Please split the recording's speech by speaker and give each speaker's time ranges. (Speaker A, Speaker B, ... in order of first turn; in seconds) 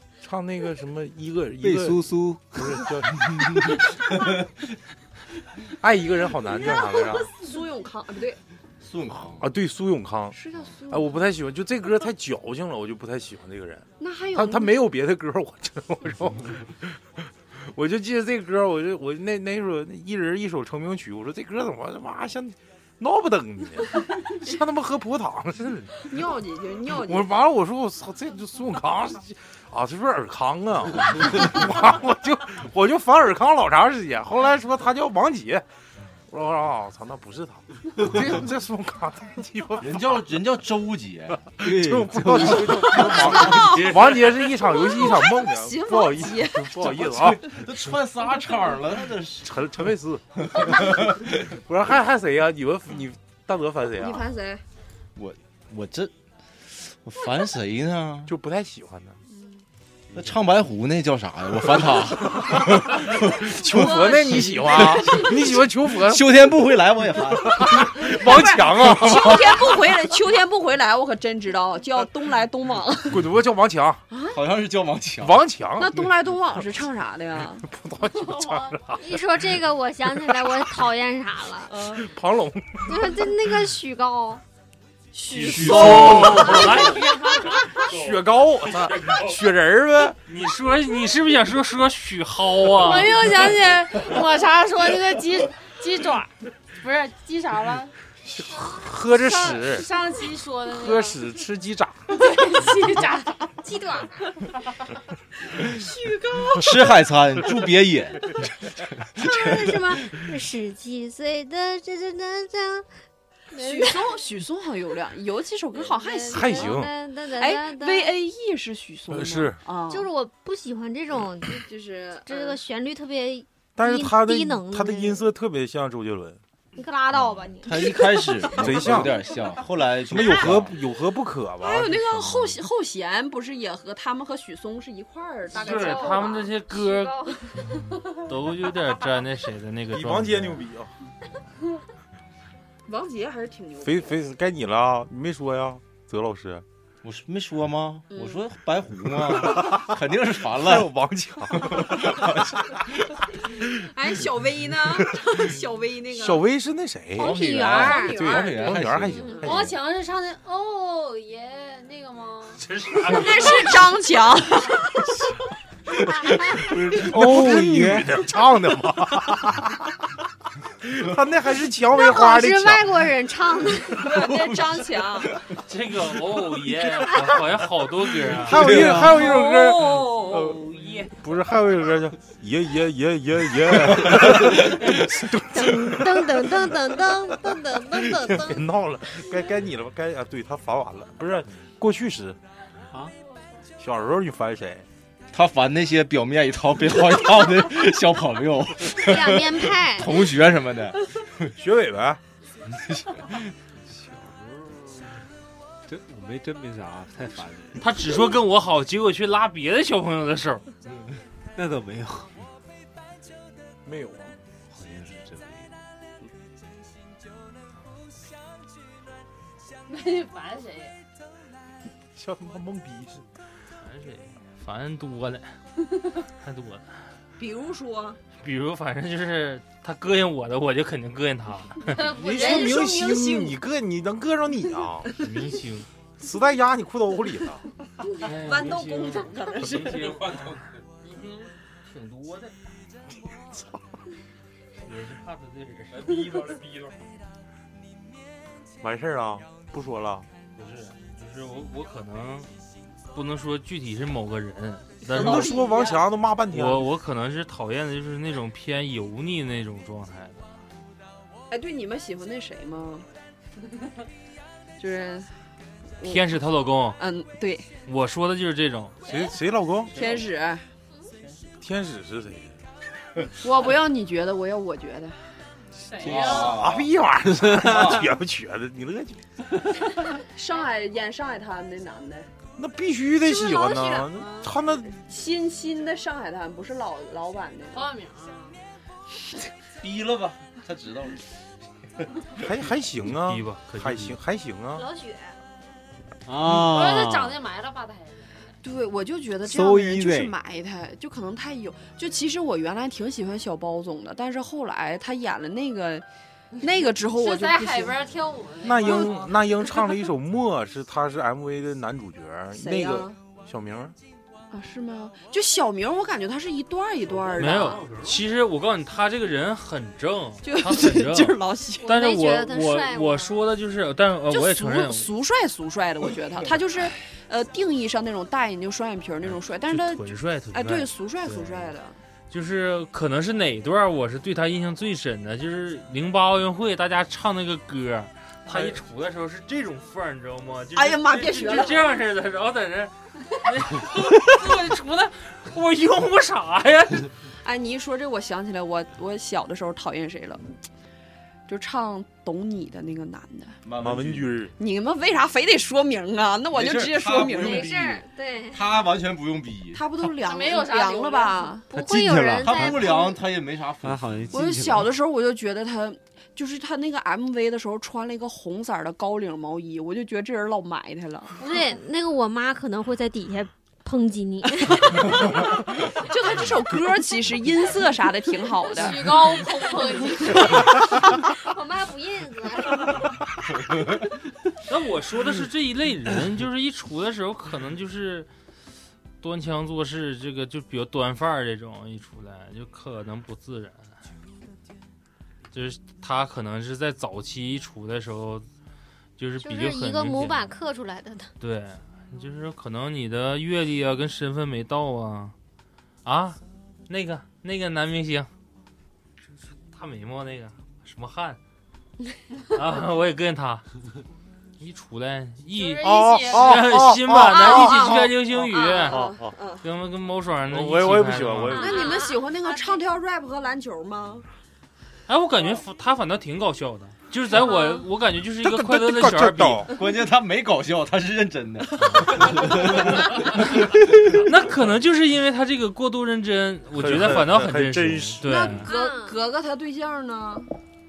Speaker A: 0.2-3.8, 5.8-7.3, 9.4-10.4, 10.9-26.1, 26.9-35.6, 36.3-40.2, 41.6-47.5, 49.4-54.3, 58.3-59.2, 62.2-66.5, 67.4-70.0, 73.1-74.0, 75.2-76.1, 77.7-79.0, 81.9-83.1, 85.7-86.5, 87.8-90.2, 98.3-99.9, 100.7-102.1, 116.3-116.9, 119.1-119.6, 123.8-126.4, 128.6-129.3, 130.0-132.5, 139.9-140.9, 143.8-146.7, 149.2-149.9, 150.5-152.8, 153.4-153.7, 154.9-155.4, 156.1-157.4, 158.0-159.7, 166.9-169.9, 170.8-172.9, 178.3-186.7, 187.4-192.4, 193.8-194.8, 201.6-202.2, 213.8-214.3, 222.2-223.2, 232.1-235.2, 236.2-237.7, 243.3-243.9, 248.8-250.3, 255.1-256.9, 269.1-270.0, 271.6-272.6, 276.1-279.2, 282.6-284.9, 292.4-294.8, 308.6-314.0, 353.8-354.6, 415.8-418.1, 418.9-419.4, 420.5-421.8, 428.4-429.8, 436.7-438.3
Speaker B: 1.6-2.9, 41.6-42.6, 166.6-168.1, 178.6-179.1, 203.9-204.6, 205.9-207.8, 211.6-212.4, 214.7-215.7, 296.3-297.3, 299.4-300.3, 361.7-362.8, 363.8-364.9
Speaker C: 6.5-8.4, 10.3-11.1, 14.0-14.8, 26.1-27.3, 42.7-46.9, 54.0-54.6, 59.3-59.6, 63.7-65.3, 68.0-73.3, 74.1-74.4, 75.8-77.7, 81.7-82.0, 85.1-87.0, 105.7-106.7, 113.6-116.8, 117.4-120.1, 121.7-122.6, 131.6-136.6, 142.9-144.2, 148.1-148.4, 153.7-156.5, 157.4-158.8, 163.0-165.0, 173.9-175.4, 178.8-181.0, 227.4-228.2, 232.2-233.6, 238.3-240.2, 255.1-256.0, 261.5-263.1, 264.8-265.3, 266.0-266.4, 267.0-267.7, 269.9-270.7, 273.4-275.2, 280.1-282.3, 283.2-284.1, 285.0-287.9, 298.6-306.1, 306.6-308.0, 312.5-313.2, 314.5-317.9, 320.4-322.0, 324.3-332.0, 340.8-342.0, 347.4-350.4, 351.5-353.6, 354.6-357.7, 359.7-361.7, 364.3-371.4, 376.0-379.5, 417.3-419.6, 421.5-424.3, 438.2-440.6
Speaker D: 8.8-9.4, 39.8-43.0, 46.9-49.5, 50.5-51.3, 55.2-58.3, 60.1-68.1, 74.3-75.4, 85.8-86.4, 106.6-108.3, 109.2-110.1, 127.6-130.8, 147.0-150.9, 151.6-152.4, 157.2-159.6, 174.3-174.6, 178.6-179.0, 184.1-184.9, 195.3-201.5, 276.1-276.9, 277.6-278.1, 289.8-291.2, 353.6-354.4, 356.5-360.0, 362.4-364.4, 429.7-434.1
Speaker E: 78.1-78.8, 87.0-87.4, 92.7-97.9, 99.1-101.2, 102.1-103.4, 135.6-136.4, 159.4-162.6, 219.9-221.0, 231.9-232.9, 275.8-276.6, 287.7-288.6, 296.6-298.5, 307.1-309.4, 360.2-361.5, 378.6-380.6, 415.5-416.6
Speaker F: 79.0-81.7, 82.9-84.4, 103.6-104.2, 109.2-112.9, 113.5-114.2, 115.8-118.1, 119.9-121.7, 122.3-125.3, 126.8-128.5, 157.2-158.2, 171.9-174.1, 185.5-188.7, 199.0-200.2, 284.1-284.5, 294.8-295.3, 321.8-323.4, 357.3-358.7, 361.7-363.2, 371.4-375.3, 381.1-383.0, 399.4-401.3, 418.6-418.9, 421.5-422.2, 427.4-427.8, 438.5-439.2
Speaker G: 85.3-87.3, 90.3-93.3, 135.5-137.3, 138.1-140.7, 162.7-163.7, 175.6-178.7, 207.8-210.7, 223.8-225.6, 226.2-227.1, 228.4-232.1, 235.2-235.9, 238.2-240.6, 242.0-242.5, 244.8-246.3, 250.6-252.5, 253.1-255.7, 256.5-260.6, 266.0-267.0, 267.9-269.0, 317.4-325.1, 329.2-331.7, 332.3-347.1, 384.7-388.3, 389.2-393.9, 395.5-398.5, 399.2-400.5, 401.4-405.4, 406.1-408.3, 409.7-411.4, 412.5-413.7, 414.6-419.1, 419.6-421.7, 425.1-429.7, 432.8-433.4, 434.2-438.7
Speaker H: 87.8-89.4, 239.8-240.8, 245.9-247.1, 293.1-294.2, 317.1-318.2